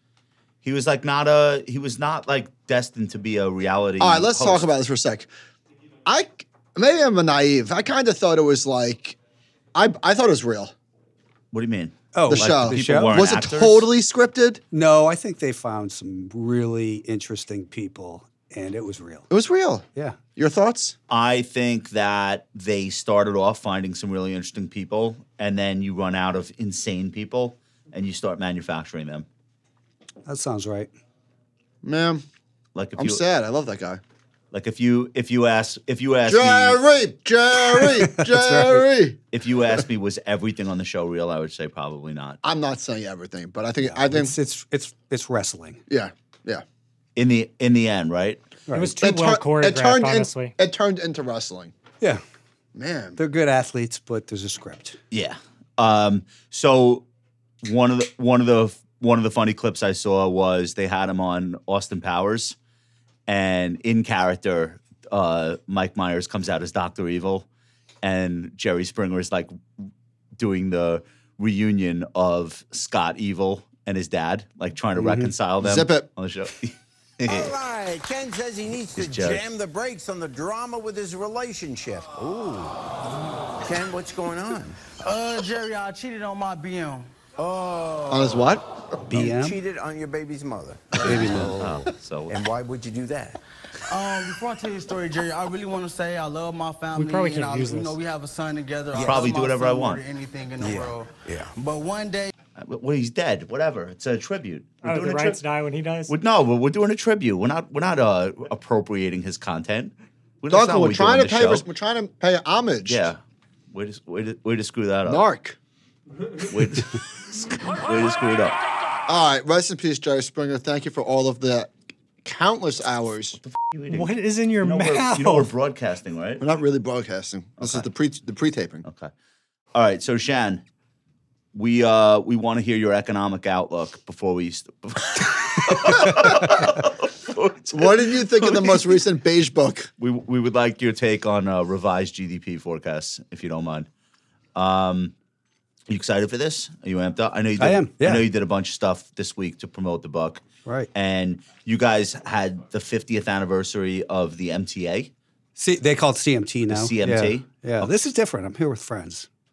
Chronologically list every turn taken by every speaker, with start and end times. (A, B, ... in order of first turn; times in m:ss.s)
0:00.6-0:04.7 A
0:04.0-0:05.3 B
0:06.1-0:09.2 B
0:09.7-0:10.7 B
0:11.5-0:13.9 A
0:12.1-0:13.2 C
0:12.3-0:14.6 B
0:14.7-0:19.3 C
0:19.3-0:19.8 B
0:20.4-0:21.0 B
0:21.1-0:29.3 A
0:30.3-0:30.9 C
0:31.8-0:32.2 B
0:32.8-0:33.2 A
0:33.0-0:34.0 B
0:34.5-0:36.8 A
0:36.3-0:39.2 B
0:38.0-0:38.8 C
0:39.3-0:42.4 A
0:42.4-0:44.3 B
0:43.8-0:45.8 C
0:45.9-0:46.6 B
0:47.2-0:48.5 A
0:48.7-0:49.0 C
0:48.7-0:50.5 D
0:49.0-0:51.7 B
0:52.8-0:53.2 B
0:53.2-0:55.0 C
0:55.1-0:57.0 A
0:57.6-1:02.6 A
1:03.3-1:07.5 A
1:08.0-1:09.6 A
1:10.4-1:17.6 A
1:15.0-1:15.3 C
1:15.6-1:16.1 B
1:17.3-1:23.0 E
1:18.9-1:19.4 A
1:23.6-1:24.9 E
1:24.9-1:27.1 F
1:27.4-1:28.3 E
1:28.1-1:28.7 B
1:29.1-1:29.6 C
1:29.1-1:31.6 E
1:30.9-1:32.4 A
1:31.0-1:31.8 C
1:32.3-1:33.4 E
1:33.9-1:42.3 F
1:37.0-1:38.0 D
1:38.9-1:40.0 A
1:40.6-1:40.9 C
1:42.6-1:45.4 A
1:44.8-1:46.1 D
1:46.1-1:51.6 A
1:50.5-1:53.1 B
1:52.8-1:53.2 A
1:53.7-1:55.2 A
1:55.1-1:55.6 B
1:56.4-1:58.6 A
1:59.1-2:03.4 B
2:03.4-2:06.4 A
2:03.9-2:05.5 D
2:06.4-2:08.8 B
2:07.6-2:07.9 A
2:08.8-2:09.1 A
2:09.7-2:10.6 A
2:11.5-2:18.9 A
2:17.7-2:19.9 B
2:20.0-2:23.9 A
2:24.6-2:25.1 A
2:25.9-2:30.4 A
2:27.6-2:28.3 C
2:30.9-2:35.1 A
2:35.6-2:39.3 C
2:36.7-2:37.9 A